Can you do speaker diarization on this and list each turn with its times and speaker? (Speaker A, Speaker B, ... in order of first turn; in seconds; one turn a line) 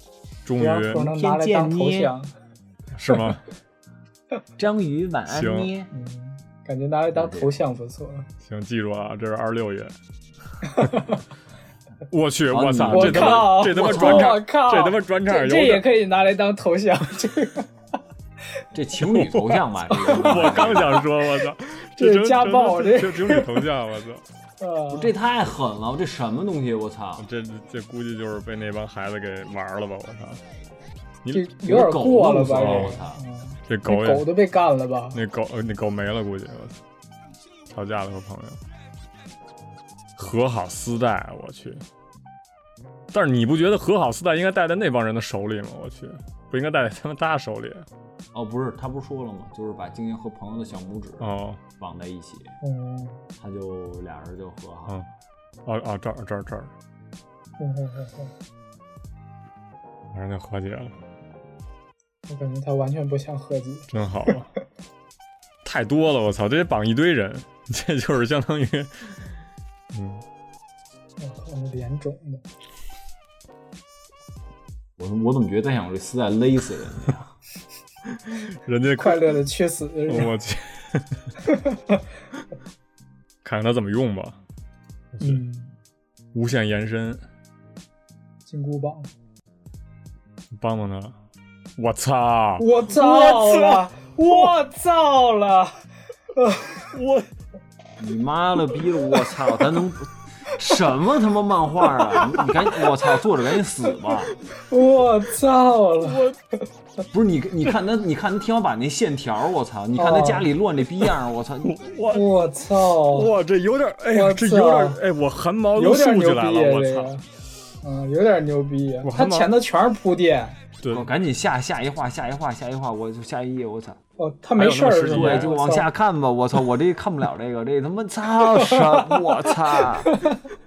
Speaker A: 0.4-1.1
Speaker B: 0.5-2.3
Speaker C: 1.0-2.1
Speaker A: 2.9-3.4
Speaker C: 4.6-5.9
Speaker A: 5.3-5.7
Speaker B: 5.9-8.3
Speaker C: 7.1-7.5
Speaker A: 8.4-9.9
Speaker B: 10.7-11.2
Speaker A: 12.1-15.8
Speaker C: 12.5-14.3
Speaker B: 12.9-17.7
Speaker C: 18.7-21.0
Speaker A: 19.1-24.2
Speaker B: 19.9-21.0
Speaker B: 22.0-23.6
Speaker B: 24.6-25.1
Speaker C: 24.9-27.3
Speaker A: 27.2-30.4
Speaker B: 31.3-35.2
Speaker C: 31.6-33.2
Speaker A: 32.5-33.0
Speaker A: 33.7-34.3
Speaker A: 35.1-36.8
Speaker A: 37.7-38.6
Speaker A: 40.2-41.8
Speaker A: 43.1-47.9
Speaker C: 48.3-52.5
Speaker A: 51.2-51.6
Speaker B: 52.6-53.2
Speaker C: 53.4-55.0
Speaker A: 55.6-56.7
Speaker B: 57.6-58.3
Speaker A: 60.1-60.9
Speaker B: 62.3-63.9
Speaker A: 63.9-64.5
Speaker A: 65.6-69.3
Speaker A: 69.9-70.2
Speaker B: 71.2-72.4
Speaker C: 75.0-77.3
Speaker A: 78.3-79.4
Speaker B: 79.0-80.3
Speaker A: 80.1-81.2
Speaker B: 81.4-82.0
Speaker A: 83.4-84.4
Speaker A: 85.1-85.4
Speaker B: 85.2-85.7
Speaker A: 86.3-87.2
Speaker B: 88.5-89.1
Speaker A: 90.5-91.2
Speaker A: 91.8-94.5
Speaker B: 92.6-96.9
Speaker A: 96.9-97.3
Speaker C: 98.0-104.3
Speaker B: 104.6-106.3
Speaker A: 106.0-106.3
Speaker C: 107.1-111.8
Speaker B: 110.0-110.5
Speaker A: 111.6-117.1
Speaker B: 112.1-113.3
Speaker B: 114.1-115.0
Speaker B: 115.7-117.2
Speaker B: 117.8-120.6
Speaker A: 119.0-119.5
Speaker A: 120.8-121.1
Speaker C: 120.9-124.0
Speaker B: 124.2-125.9
Speaker A: 124.6-125.5
Speaker C: 125.1-130.2
Speaker B: 128.5-130.4